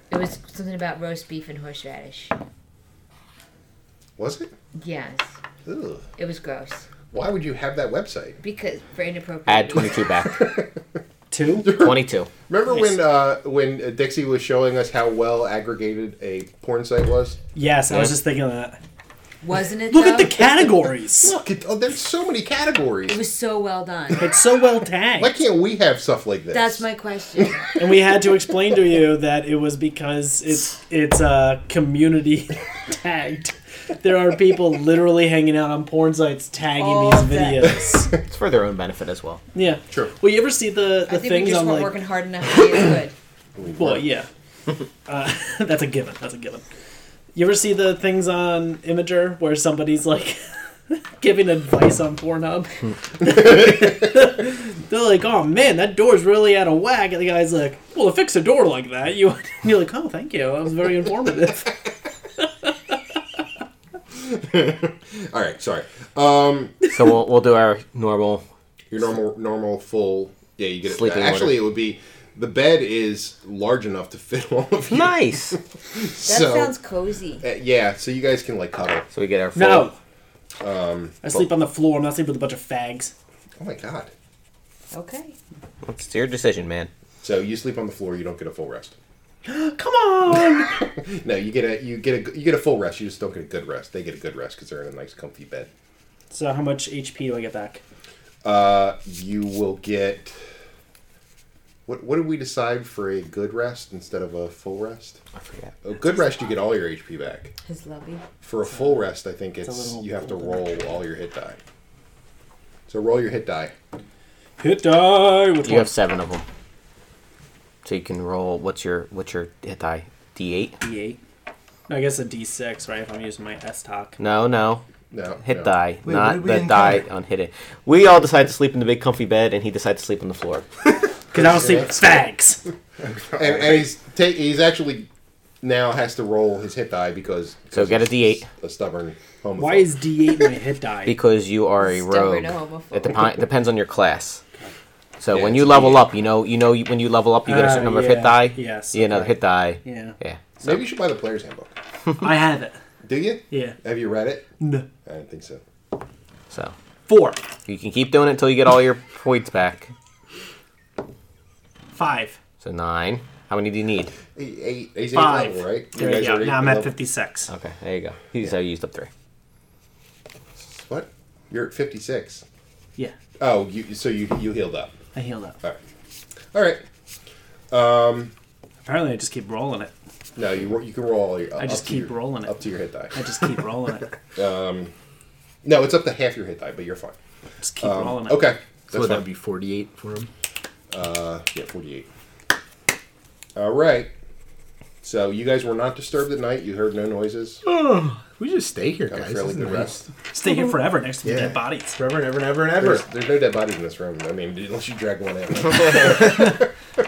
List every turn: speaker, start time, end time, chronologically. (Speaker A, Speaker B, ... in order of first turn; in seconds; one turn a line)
Speaker A: 0.1-2.3
Speaker B: 4.2-4.5
Speaker A: 4.8-5.3
Speaker B: 5.7-6.0
Speaker A: 6.2-6.9
Speaker B: 7.1-8.4
Speaker A: 8.4-10.1
Speaker C: 9.5-10.5
Speaker B: 10.4-10.7
Speaker D: 11.3-11.8
Speaker B: 11.6-17.4
Speaker C: 11.8-12.3
Speaker D: 17.6-18.8
Speaker C: 17.9-18.2
Speaker A: 19.4-20.4
Speaker D: 19.9-21.3
Speaker B: 21.2-23.2
Speaker A: 23.1-24.3
Speaker D: 24.2-25.4
Speaker B: 25.2-26.9
Speaker A: 26.5-27.7
Speaker D: 27.8-38.1
Speaker A: 36.7-37.8
Speaker C: 38.3-39.4
Speaker D: 39.5-42.0
Speaker A: 41.1-43.1
Speaker B: 43.6-44.1
Speaker D: 43.8-44.3
Speaker D: 45.1-46.6
Speaker D: 47.3-61.8
Speaker D: 62.4-63.0
Speaker B: 64.1-66.8
Speaker C: 66.9-68.4
Speaker B: 68.9-76.7
Speaker C: 70.9-71.6
Speaker C: 74.9-75.6
Speaker A: 76.2-77.5
Speaker B: 77.4-79.1
Speaker C: 79.1-79.9
Speaker D: 79.5-80.0
Speaker B: 80.6-81.2
Speaker D: 81.2-83.1
Speaker B: 83.6-84.1
Speaker A: 84.9-85.3
Speaker C: 85.8-86.9
Speaker B: 87.2-89.0
Speaker D: 89.5-90.8
Speaker B: 90.6-95.7
Speaker D: 96.3-97.8
Speaker B: 98.4-100.4
Speaker B: 101.9-105.2
Speaker C: 105.4-105.7
Speaker B: 105.8-107.5
Speaker A: 107.7-108.2
Speaker B: 108.4-111.6
Speaker D: 109.6-110.8
Speaker B: 112.9-113.7
Speaker D: 114.6-115.9
Speaker C: 115.6-116.5
Speaker C: 117.8-120.8
Speaker D: 120.8-121.2
Speaker D: 121.9-124.2
Speaker C: 124.2-124.8
Speaker B: 125.1-125.7
Speaker C: 125.4-130.7
Speaker E: 126.0-127.0
Speaker D: 131.3-132.6
Speaker B: 131.3-132.2
Speaker E: 133.0-133.9
Speaker B: 133.4-135.1
Speaker B: 135.6-140.0
Speaker C: 137.7-138.5
Speaker D: 139.6-141.2
Speaker C: 141.1-144.4
Speaker A: 141.8-143.3
Speaker C: 145.2-150.8
Speaker B: 145.3-146.1
Speaker D: 147.4-150.2
Speaker B: 150.6-151.7
Speaker D: 152.2-152.8
Speaker B: 153.0-154.5
Speaker D: 153.5-153.8
Speaker D: 154.6-154.9
Speaker B: 155.1-155.6
Speaker D: 157.1-157.4
Speaker C: 157.7-159.9
Speaker D: 161.9-162.4
Speaker C: 162.6-164.1
Speaker B: 164.3-166.9
Speaker D: 165.1-167.5
Speaker C: 167.5-169.1
Speaker B: 170.7-172.4
Speaker B: 173.4-175.0
Speaker D: 175.1-175.6
Speaker B: 176.5-176.8
Speaker B: 177.7-178.3
Speaker D: 178.8-179.9
Speaker B: 180.4-183.2
Speaker D: 181.6-182.6
Speaker D: 183.1-184.2
Speaker B: 184.4-184.9
Speaker B: 185.6-187.2
Speaker D: 187.6-188.5
Speaker B: 187.8-189.3
Speaker E: 188.9-190.3
Speaker B: 190.9-192.1
Speaker B: 193.6-194.1
Speaker B: 195.0-197.6
Speaker E: 197.6-200.1
Speaker B: 199.1-200.0
Speaker D: 200.3-202.0
Speaker E: 201.2-203.0
Speaker B: 202.8-206.7
Speaker E: 206.2-206.6